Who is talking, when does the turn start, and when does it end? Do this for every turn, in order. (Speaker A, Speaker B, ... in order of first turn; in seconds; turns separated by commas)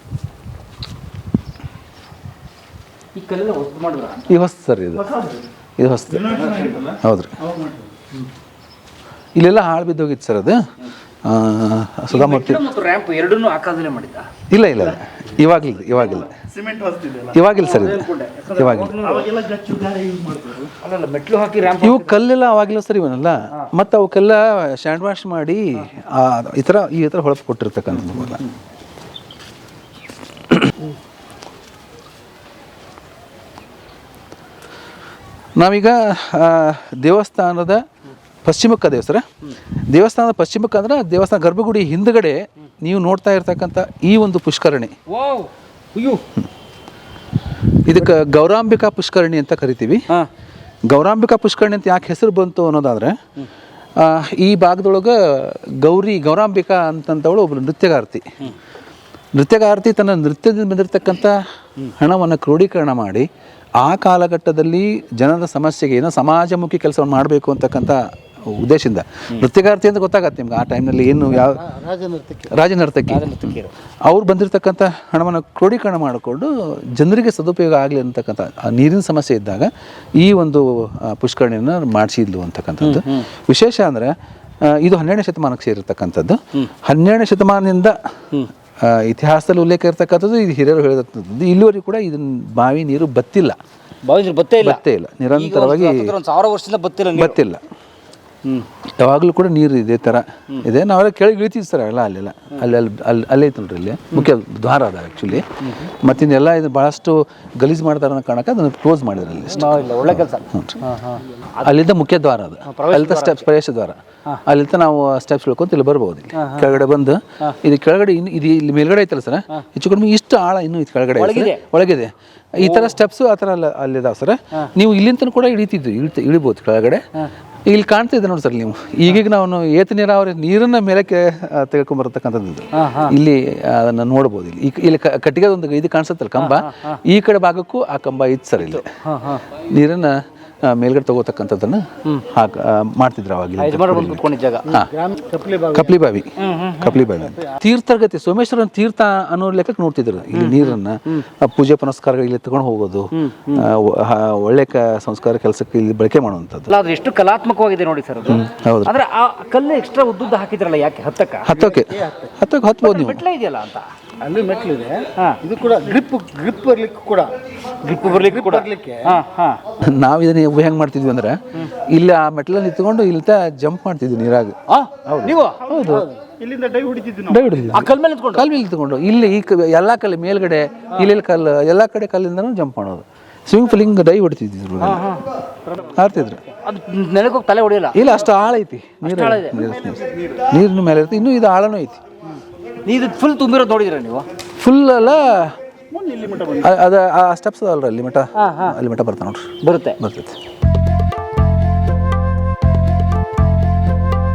Speaker A: 3.1-4.3, Speaker B: 4.3-5.0, Speaker C: 5.0-5.5, Speaker B: 5.8-6.4, Speaker C: 6.1-7.8, Speaker B: 7.0-7.3, Speaker B: 9.3-10.7, Speaker B: 11.2-12.6, Speaker A: 12.1-14.3, Speaker B: 14.5-16.3, Speaker C: 16.4-17.4, Speaker B: 17.3-18.9, Speaker A: 17.6-19.3, Speaker C: 19.0-20.7, Speaker A: 20.8-22.2, Speaker B: 21.8-28.4, Speaker A: 27.9-28.5, Speaker B: 35.6-37.8, Speaker B: 38.4-39.2, Speaker B: 39.9-44.9, Speaker A: 45.1-46.2, Speaker B: 47.8-50.1, Speaker B: 50.9-53.2, Speaker B: 54.0-58.3, Speaker B: 59.4-61.4, Speaker B: 62.0-63.3, Speaker B: 63.8-71.6, Speaker D: 71.3-72.5, Speaker B: 72.5-73.5, Speaker A: 73.1-73.7, Speaker B: 74.0-87.9, Speaker A: 82.8-83.2, Speaker B: 88.8-93.5, Speaker A: 94.0-94.8, Speaker B: 94.6-96.1, Speaker A: 95.3-97.4, Speaker B: 97.2-97.6, Speaker B: 99.0-110.8, Speaker A: 109.5-111.7, Speaker B: 111.6-127.0, Speaker A: 112.7-113.5, Speaker A: 116.4-116.7, Speaker A: 121.2-121.6, Speaker A: 122.6-122.9, Speaker B: 127.7-138.8, Speaker A: 132.7-133.1, Speaker A: 136.4-137.0, Speaker A: 138.6-139.4, Speaker B: 139.7-144.9, Speaker A: 143.6-144.7, Speaker D: 144.7-146.0, Speaker B: 145.7-156.7, Speaker A: 146.4-147.0, Speaker A: 150.3-151.2, Speaker A: 153.1-153.7, Speaker A: 156.7-161.6, Speaker B: 158.3-158.9, Speaker B: 161.4-163.2, Speaker D: 161.6-162.3, Speaker A: 162.8-163.8, Speaker D: 164.2-167.3, Speaker A: 167.8-169.6, Speaker D: 167.8-169.2, Speaker B: 169.8-176.1, Speaker A: 174.7-175.6, Speaker D: 175.8-176.2, Speaker C: 176.4-177.6, Speaker B: 177.3-185.0, Speaker A: 177.7-178.5, Speaker A: 184.8-185.2, Speaker C: 185.7-185.9, Speaker B: 185.9-186.4, Speaker A: 186.6-188.0, Speaker B: 187.9-192.0, Speaker A: 189.0-189.6, Speaker C: 189.6-190.4, Speaker A: 192.8-194.2, Speaker B: 194.6-195.6, Speaker C: 195.9-196.7, Speaker B: 196.6-200.4, Speaker A: 198.4-198.8, Speaker A: 199.6-200.0